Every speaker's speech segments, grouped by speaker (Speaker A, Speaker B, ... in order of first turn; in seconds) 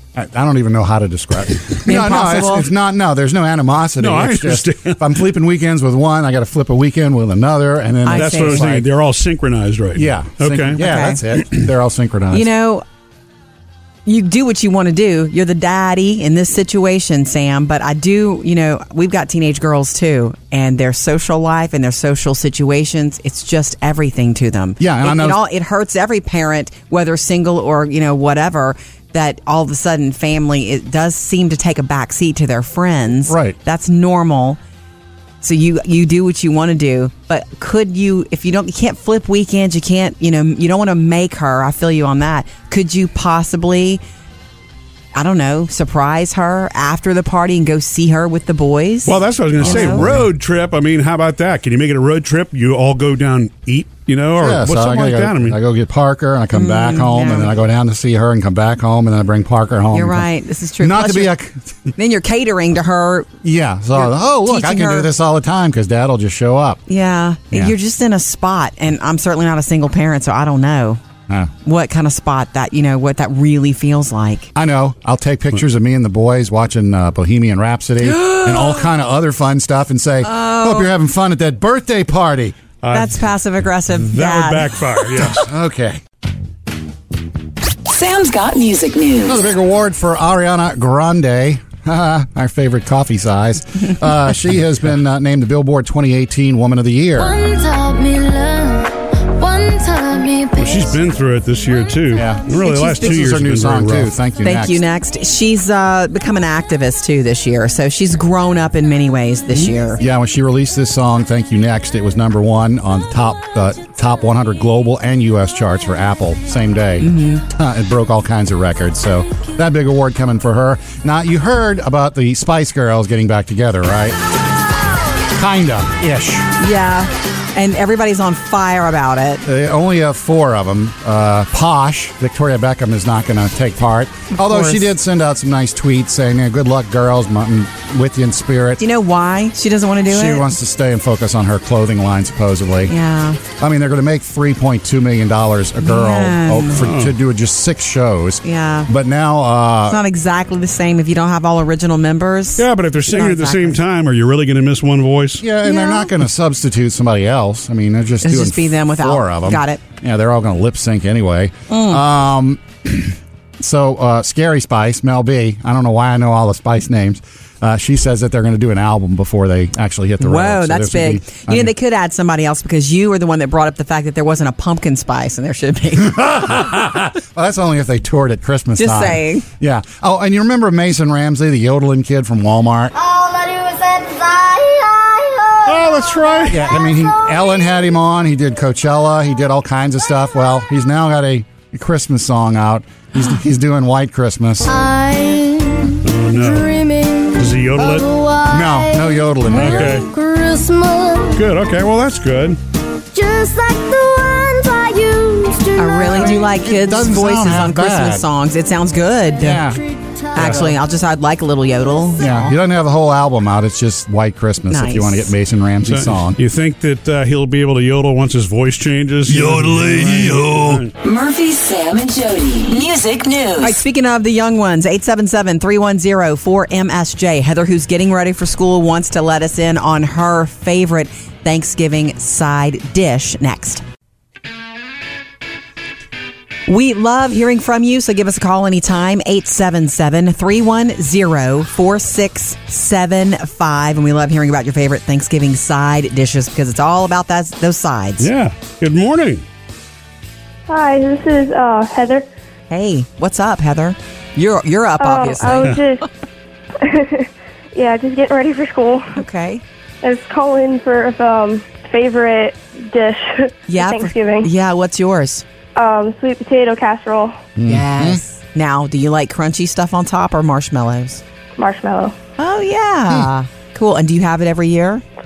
Speaker A: 0.1-8.9, 9.9-12.5, 24.8-25.4, 33.2-33.6, 49.6-50.3, 54.4-60.3, 60.8-61.9, 63.4-66.8, 74.5-82.6, 85.3-86.0, 89.2-97.4, 102.2-104.8, 109.6-124.2, 125.3-126.5, 129.5-138.8, 140.1-142.9, 143.6-150.0, 155.4-171.7, 176.0-182.9, 186.5-194.8, 198.5-200.1, 206.3-208.3, 209.4-209.8, 212.2-216.4, 219.3-220.8, 267.6-268.2
Speaker B: 1.9-2.7, 8.0-8.7, 10.8-11.2, 12.3-12.8, 14.1-34.6, 35.4-44.0, 45.1-50.1, 56.5-57.5, 59.9-61.3, 62.0-63.3, 64.0-65.1, 66.9-71.0, 71.6-74.5, 78.0-78.9, 80.2-80.9, 82.9-84.9, 102.6-103.3, 104.4-110.0, 117.0-117.4, 126.6-129.4, 134.3-134.9, 138.8-140.5, 142.9-143.4, 145.8-146.8, 148.4-148.9, 149.9-153.8, 155.6-156.1, 158.2-159.8, 161.7-162.0, 170.2-176.3, 178.8-179.5, 205.8-209.6, 210.3-212.6, 214.7-215.3, 223.6-233.8, 236.7-248.3, 252.7-255.8, 259.1-259.6, 263.7-265.4, 267.7-271.2, 272.4-275.0
Speaker C: 4.0-5.0, 8.1-10.8, 49.0-55.6, 82.8-83.3, 84.1-85.5, 100.6-104.1, 146.8-147.1, 152.6-155.4, 185.7-186.6, 196.1-196.8, 197.4-198.1, 199.5-200.1, 201.3-202.6, 210.4-210.7, 215.8-220.9, 248.2-249.4
Speaker D: 87.9-89.4, 221.0-223.8
Speaker E: 97.2-101.0, 182.9-186.1, 194.7-201.4, 203.1-206.6, 209.7-210.6
Speaker F: 250.7-252.3, 255.0-256.1, 256.8-259.2, 260.0-264.5, 265.8-267.4, 271.6-272.2